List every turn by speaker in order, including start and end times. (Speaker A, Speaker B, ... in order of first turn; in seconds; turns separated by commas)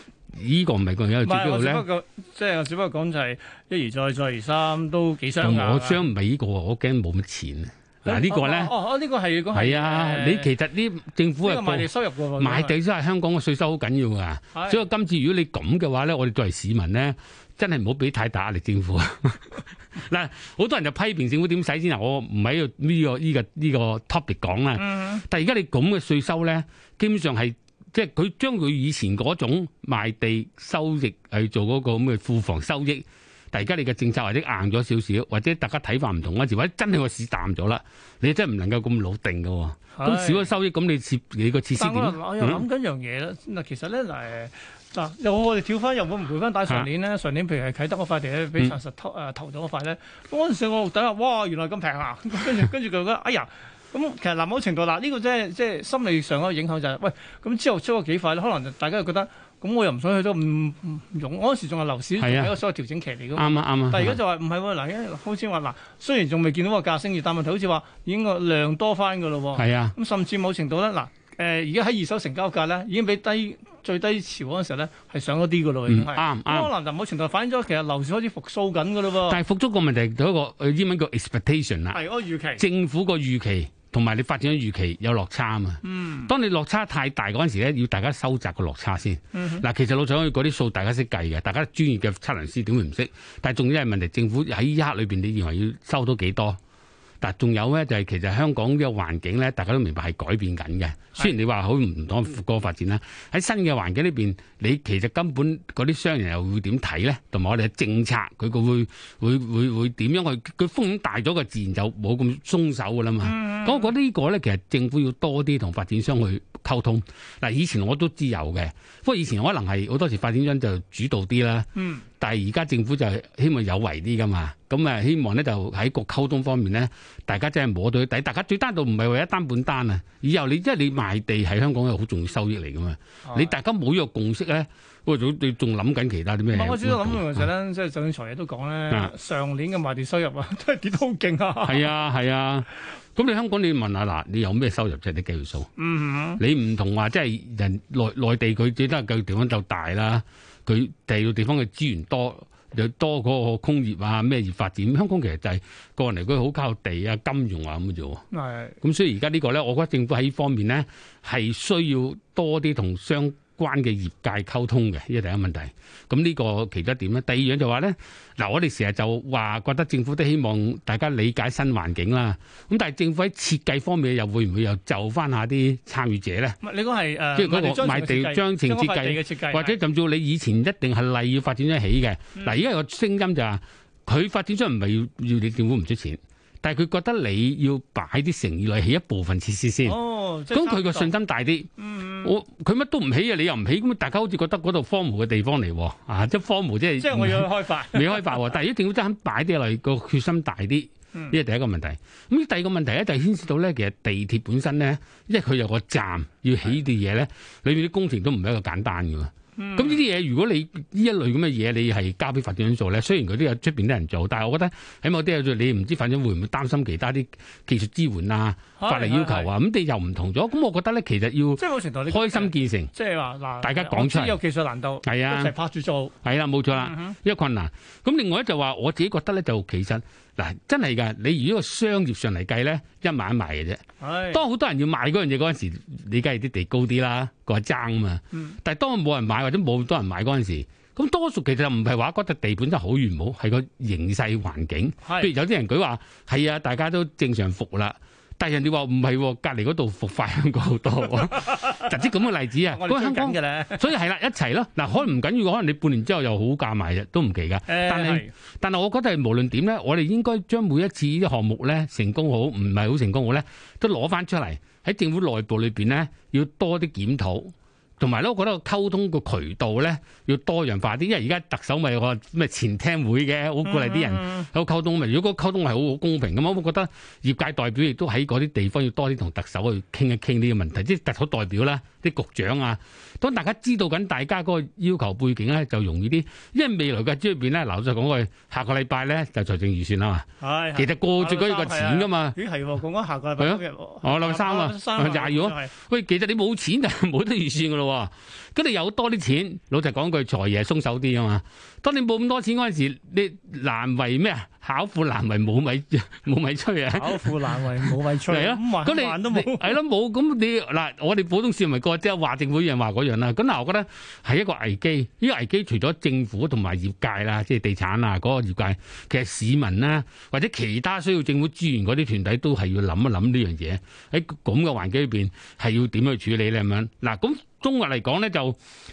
Speaker A: 0.3-1.9, Speaker B: 1.2-6.0, Speaker A: 5.4-8.7, Speaker B: 8.0-10.5, Speaker A: 9.5-42.6, Speaker B: 11.4-12.8, Speaker B: 14.5-14.8, Speaker B: 24.8-25.2, Speaker B: 39.9-40.5, Speaker B: 41.7-79.4, Speaker A: 62.2-62.5, Speaker A: 63.4-64.2, Speaker A: 69.5-69.9, Speaker A: 75.9-76.7, Speaker A: 79.3-82.0, Speaker B: 81.9-82.6, Speaker A: 82.6-96.6, Speaker B: 85.8-86.3, Speaker B: 89.3-89.6, Speaker A: 97.2-121.7, Speaker B: 113.2-113.9, Speaker B: 121.8-122.0, Speaker A: 122.2-137.5, Speaker B: 133.2-133.5, Speaker B: 136.5-141.9, Speaker A: 141.6-145.7, Speaker B: 145.8-146.4, Speaker A: 146.4-158.2, Speaker B: 158.3-158.8, Speaker A: 158.8-176.6, Speaker B: 176.6-179.8, Speaker A: 177.3-190.0, Speaker B: 189.8-191.1, Speaker A: 190.5-191.7, Speaker B: 191.8-192.3, Speaker A: 192.2-222.9, Speaker B: 197.0-198.4, Speaker B: 209.6-210.0, Speaker B: 218.8-219.5, Speaker B: 221.6-226.1, Speaker A: 223.6-224.4, Speaker A: 225.0-225.5, Speaker A: 226.2-292.4, Speaker B: 226.7-227.2, Speaker B: 234.0-234.4, Speaker B: 245.0-245.3, Speaker B: 252.7-253.9, Speaker B: 257.7-258.3, Speaker B: 273.6-274.5, Speaker B: 290.4-295.7, Speaker A: 293.4-328.6, Speaker B: 306.9-309.8